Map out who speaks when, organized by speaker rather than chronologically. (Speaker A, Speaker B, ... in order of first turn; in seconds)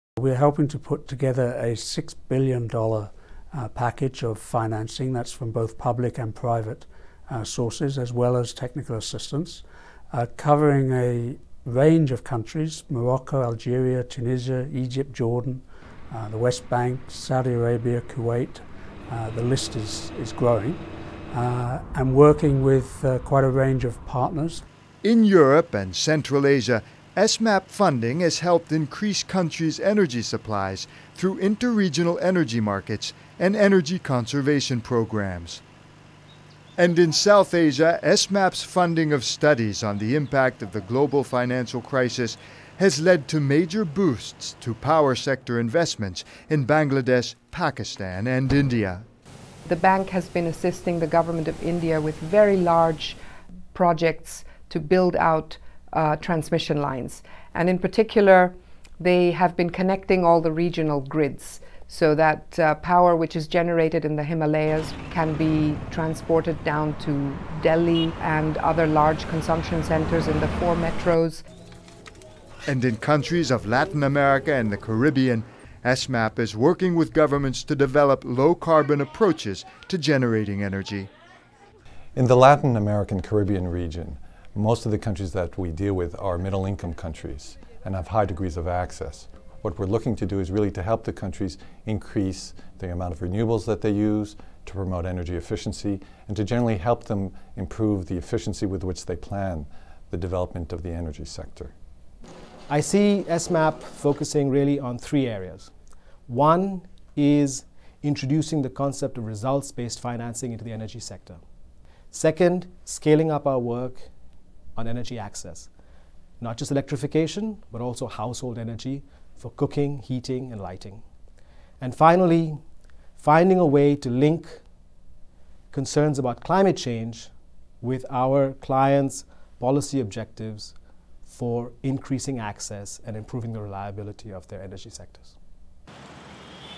Speaker A: 0.2-24.6
Speaker B: 25.0-35.6, 36.8-49.0, 72.7-81.1
Speaker C: 49.7-53.2, 53.7-71.4
Speaker D: 82.2-101.7
Speaker E: 102.7-105.7, 106.3-111.4, 112.1-114.1, 114.8-115.7, 116.4-121.0, 121.8-122.6, 123.2-124.6, 125.7-130.7, 131.3-135.3